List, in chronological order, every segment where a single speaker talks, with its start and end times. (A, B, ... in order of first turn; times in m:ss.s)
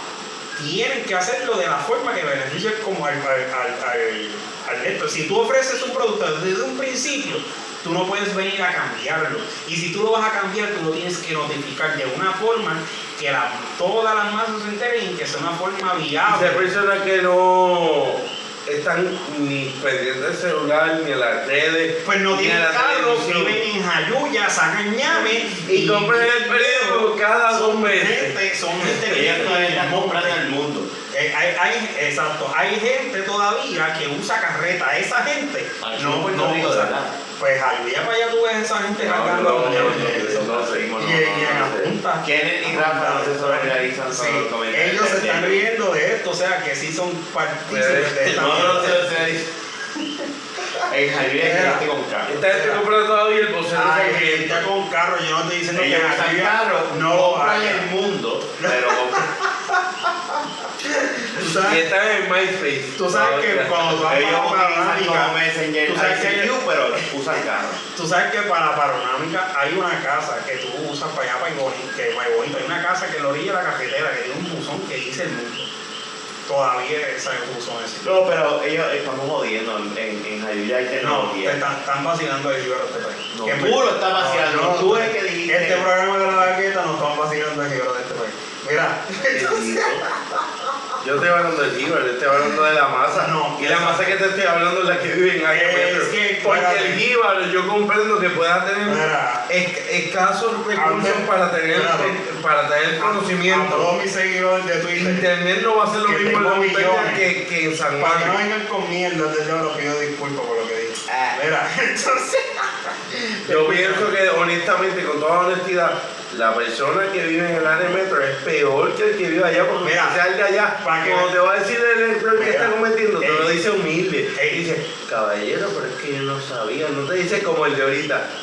0:00.6-0:16.7 A
0:16.2-0:23.6 B
0:22.0-0:30.5 A
0:25.1-0:29.3 B
0:29.0-0:30.9 C
0:31.1-0:49.2 A
0:35.8-0:37.1 C
0:39.0-0:40.9 B
0:39.2-0:45.6 C
0:47.7-0:49.0 B
0:48.3-0:49.4 C
0:50.9-0:52.5 C
0:51.4-0:51.8 A
0:52.2-0:54.7 B
0:52.5-0:52.8 A
0:53.7-0:57.9 A
0:55.7-0:59.3 C
0:58.6-0:59.7 A
1:00.8-1:01.8 A
1:01.4-1:04.2 B
1:03.0-1:07.0 A
1:04.0-1:07.8 C
1:07.9-1:15.7 A
1:16.5-1:18.0 A
1:18.0-1:21.6 C
1:21.0-1:30.4 A
1:23.3-1:25.9 C
1:29.3-1:30.0 B
1:31.0-1:43.9 B
1:33.1-1:34.2 A
1:35.5-1:37.0 A
1:38.8-1:39.4 A
1:40.8-1:42.2 A
1:43.0-1:45.3 A
1:45.0-1:48.4 B
1:46.0-1:47.2 A
1:48.0-1:54.1 A
1:51.1-1:51.4 C
1:53.4-2:08.2 B
1:59.8-2:00.2 A
2:00.8-2:01.3 A
2:02.3-2:03.6 A
2:04.3-2:04.7 A